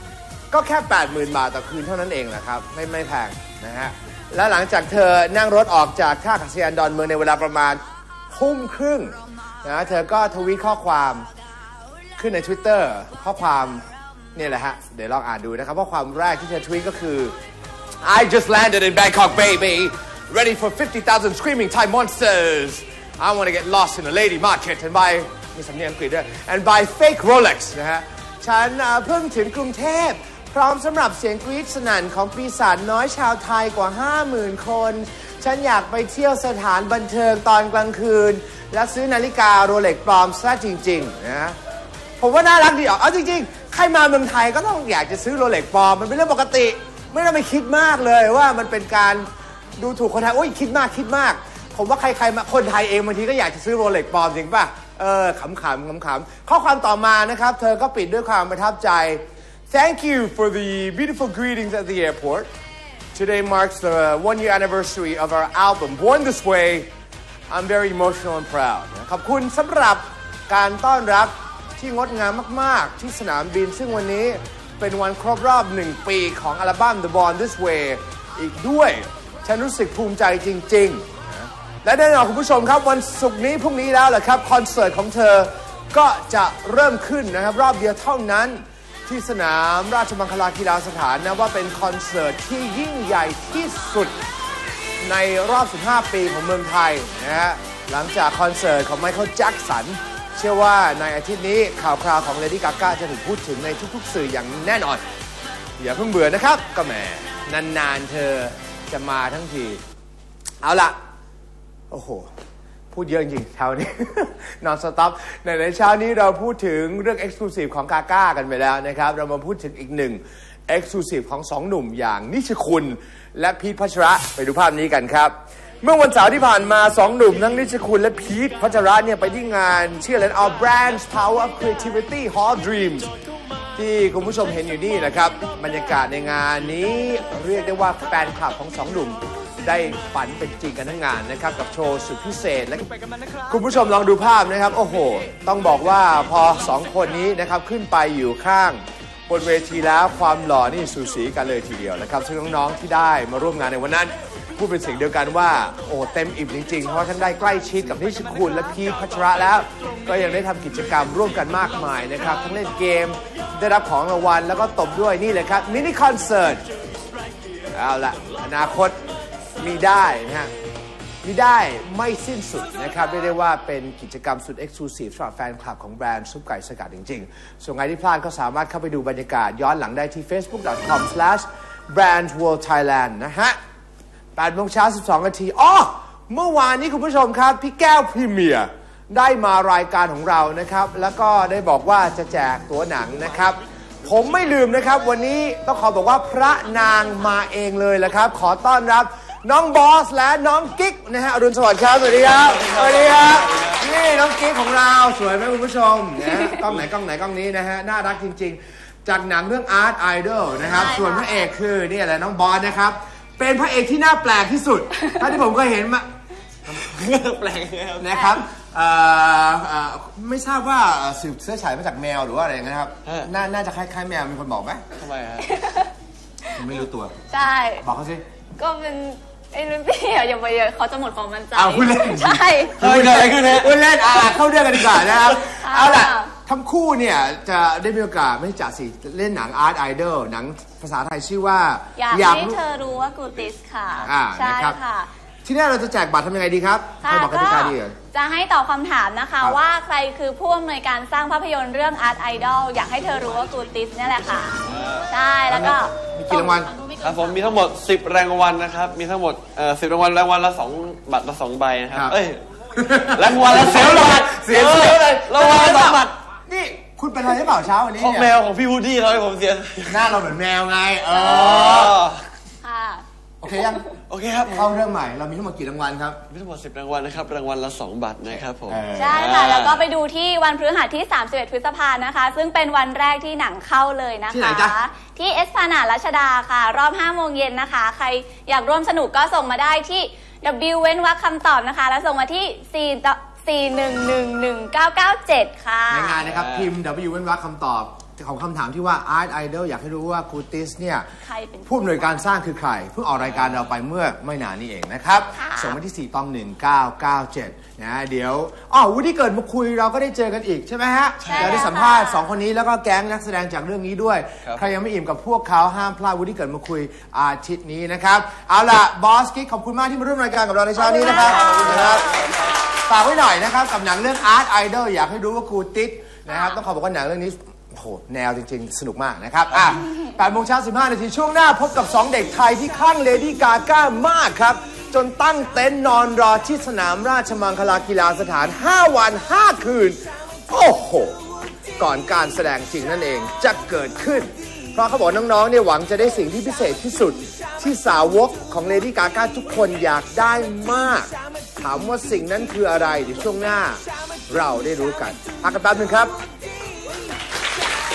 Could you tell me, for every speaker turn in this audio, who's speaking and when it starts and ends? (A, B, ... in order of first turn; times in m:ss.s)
0:00.5-0:11.3 A
0:12.2-0:17.3 A
0:18.0-0:41.6 A
0:42.2-0:49.3 A
0:49.8-1:02.5 A
1:03.1-1:06.9 A
1:07.5-1:34.2 A
1:35.0-1:45.0 A
1:45.8-1:49.8 A
1:50.6-1:50.9 A
1:51.9-1:52.3 A
1:52.9-2:13.1 A
2:13.8-2:46.6 A
2:47.7-2:49.0 A
2:49.6-2:50.5 A
2:51.2-3:03.6 A
3:04.4-3:36.0 A
3:22.6-3:23.8 B
3:30.7-3:31.5 C
3:36.7-3:38.3 B
3:38.0-3:44.8 A
3:43.0-3:43.3 B
3:45.0-3:45.5 B
3:45.4-3:45.9 C
3:46.5-3:47.2 A
3:47.3-3:47.8 C
3:47.8-3:48.2 A
3:48.6-3:52.8 C
3:51.5-4:02.6 A
3:52.8-3:53.7 B
3:55.4-3:56.3 C
4:02.0-4:05.1 C
4:04.0-4:04.8 A
4:05.4-4:07.9 A
4:07.0-4:15.9 C
4:14.7-4:15.1 B
4:15.5-4:16.7 A
4:16.5-4:17.0 C
4:17.0-4:22.4 B
4:22.7-4:28.3 A
4:23.1-4:26.2 B
4:28.0-4:30.1 B
4:29.9-4:32.0 A
4:31.2-4:32.3 B
4:32.6-4:33.0 C
4:33.4-4:33.9 A
4:34.1-4:34.7 B
4:34.4-4:36.2 A
4:36.3-4:39.8 B
4:38.7-4:39.3 A
4:38.9-4:56.2 C
4:44.3-4:44.8 A
4:55.9-5:01.0 A
4:56.3-4:56.7 B
5:01.2-5:02.1 C
5:01.7-5:22.2 A
5:05.4-5:05.8 C
5:11.2-5:11.5 B
5:11.2-5:12.2 C
5:20.8-5:22.4 C
5:21.3-5:22.6 B
5:22.7-5:41.2 A
5:26.3-5:26.6 C
5:41.8-5:56.1 A